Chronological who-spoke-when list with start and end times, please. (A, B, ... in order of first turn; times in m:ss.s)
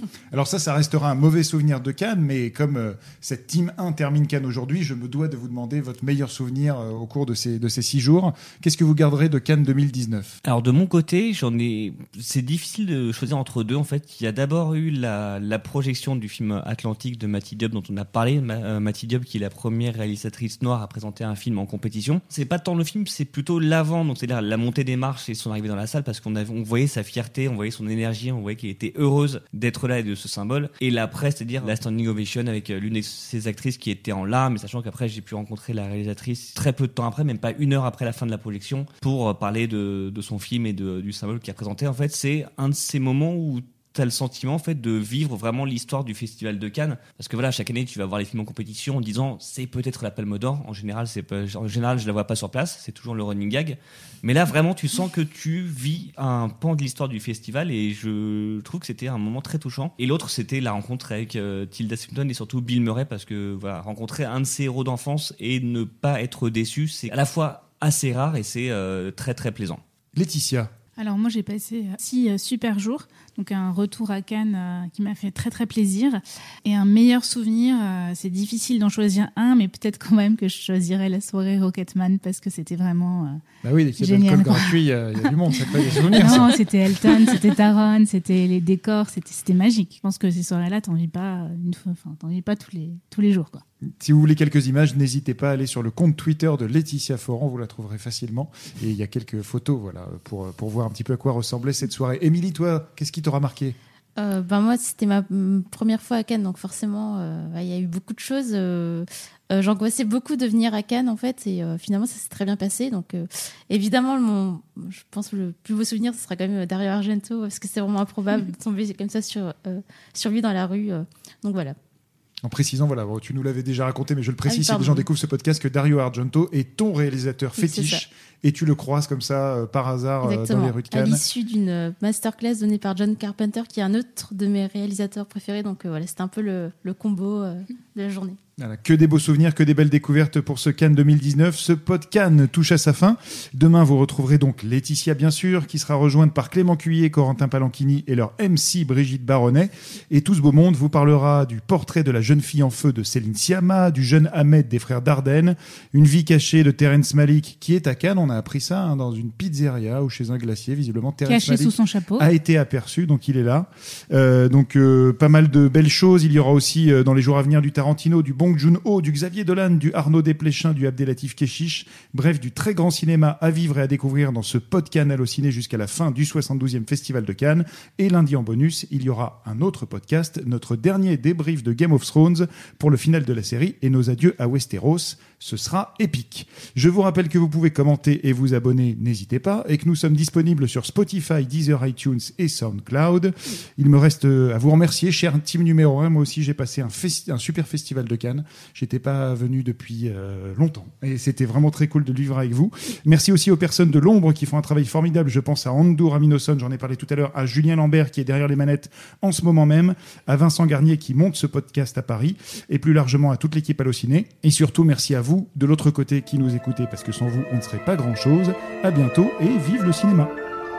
0:00.3-0:10.4 A
0:10.4-1:09.8 B
1:10.2-1:10.7 A
1:11.0-1:23.4 C
1:23.6-1:27.5 A
1:24.0-1:24.8 C
1:25.9-1:33.6 C
1:33.8-1:43.8 A
1:44.2-2:01.8 D
2:02.4-2:11.2 A
2:04.5-2:05.1 D
2:07.6-2:08.0 D
2:10.2-2:18.4 D
2:18.6-3:40.3 A
2:41.3-2:42.3 C